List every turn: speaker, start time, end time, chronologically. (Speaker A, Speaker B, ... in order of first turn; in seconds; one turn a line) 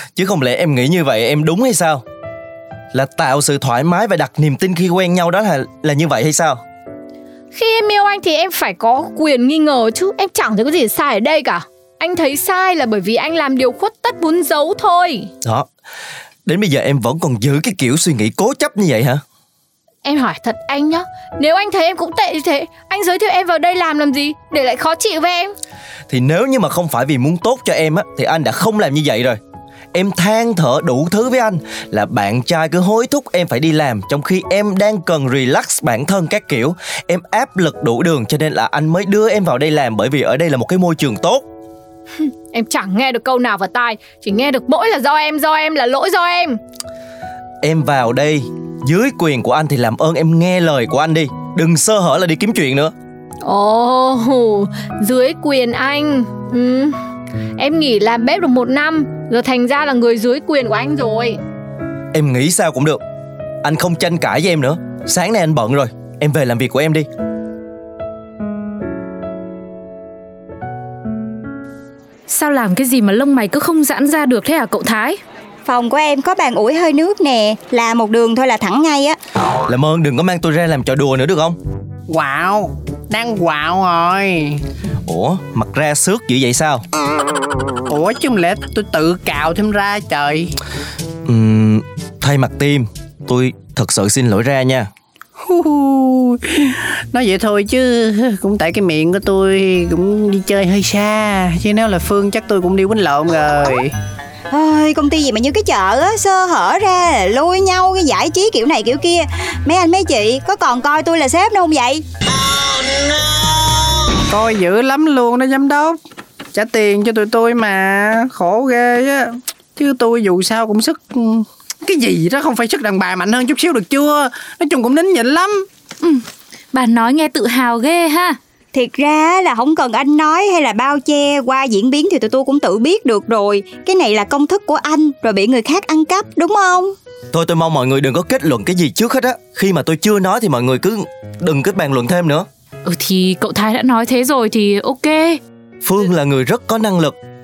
Speaker A: 0.1-2.0
Speaker A: 2.9-6.6
Speaker B: 7.5-15.3
Speaker A: 16.4-19.2
Speaker B: 20.0-25.5
Speaker A: 26.1-29.4
Speaker A: 29.9-41.4
Speaker B: 42.5-46.6
Speaker A: 47.6-52.9
Speaker B: 53.4-57.0
Speaker B: 57.6-61.4
Speaker A: 62.1-63.0
Speaker A: 63.6-67.1
Speaker C: 72.3-75.2
Speaker D: 75.6-79.2
Speaker A: 79.7-81.6
Speaker E: 82.1-84.6
Speaker A: 85.0-86.8
Speaker E: 87.9-90.5
Speaker A: 91.2-94.9
Speaker E: 95.4-103.9
Speaker D: 104.5-112.0
Speaker E: 114.3-116.0
Speaker E: 116.5-125.7
Speaker C: 126.0-128.4
Speaker D: 128.7-136.9
Speaker A: 137.3-142.5
Speaker C: 142.8-145.4
Speaker A: 145.8-147.2